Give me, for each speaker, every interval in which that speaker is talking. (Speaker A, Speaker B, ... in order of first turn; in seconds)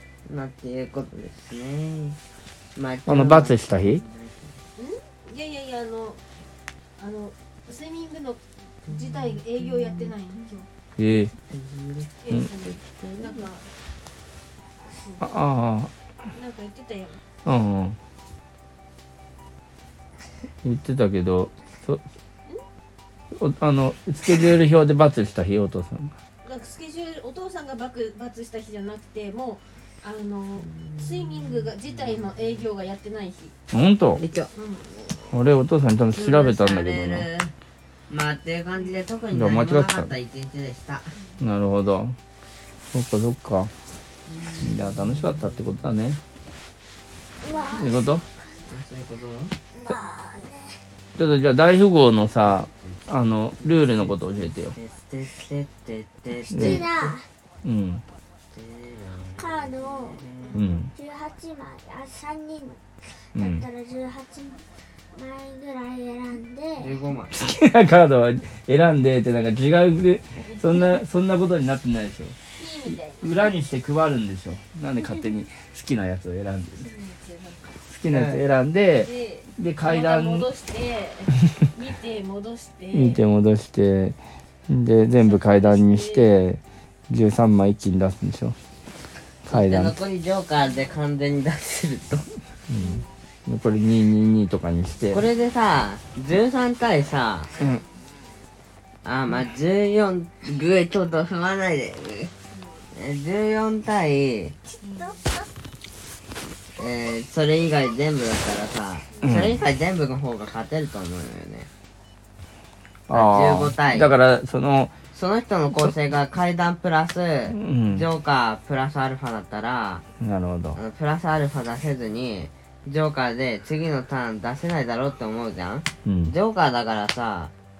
Speaker A: 0.2-2.2, 2.8-4.6, 8.9-10.1, 11.5-13.4, 30.6-32.6, 34.1-34.5, 36.1-37.5, 38.1-41.1, 44.3-45.5, 48.5-49.5, 52.4-53.0, 53.6-54.2, 54.7-57.2, 58.5-60.6, 66.8-67.4, 78.1-78.4, 89.5-92.3, 95.1-97.5, 99.0-102.3, 102.9-104.6, 106.8-111.7, 113.1-114.1, 115.1-120.0, 120.7-127.5
Speaker B: 3.1-4.0, 11.0-11.3, 15.2-15.9, 17.4-18.0, 20.6-22.0, 23.3-26.1, 33.7-34.2, 35.3-37.3, 39.3-40.1, 41.4-42.1, 42.9-43.7, 44.6-46.2, 47.7-48.2, 51.1-54.8, 56.5-56.8, 57.6-58.0, 60.5-60.9, 63.3-63.6, 67.3-72.3, 72.9-76.9, 77.8-80.5, 82.9-84.2, 84.7-88.6, 89.5-89.9, 92.7-95.2, 109.2-109.6, 113.1-114.9, 117.5-118.1, 120.2-120.8, 126.0-126.3
Speaker C: 4.8-6.2, 7.0-10.7, 12.2-13.7, 14.9-15.4, 16.3-17.2, 26.4-33.5, 34.5-34.9, 60.4-60.8, 70.4-71.0, 72.5-73.6, 76.8-77.7, 78.9-83.2, 85.0-86.3, 92.8-93.1, 102.5-102.9, 104.8-105.2
Speaker D: 47.4-48.2, 49.7-50.8, 56.5-57.3, 59.4-60.2, 60.9-66.9, 104.7-105.5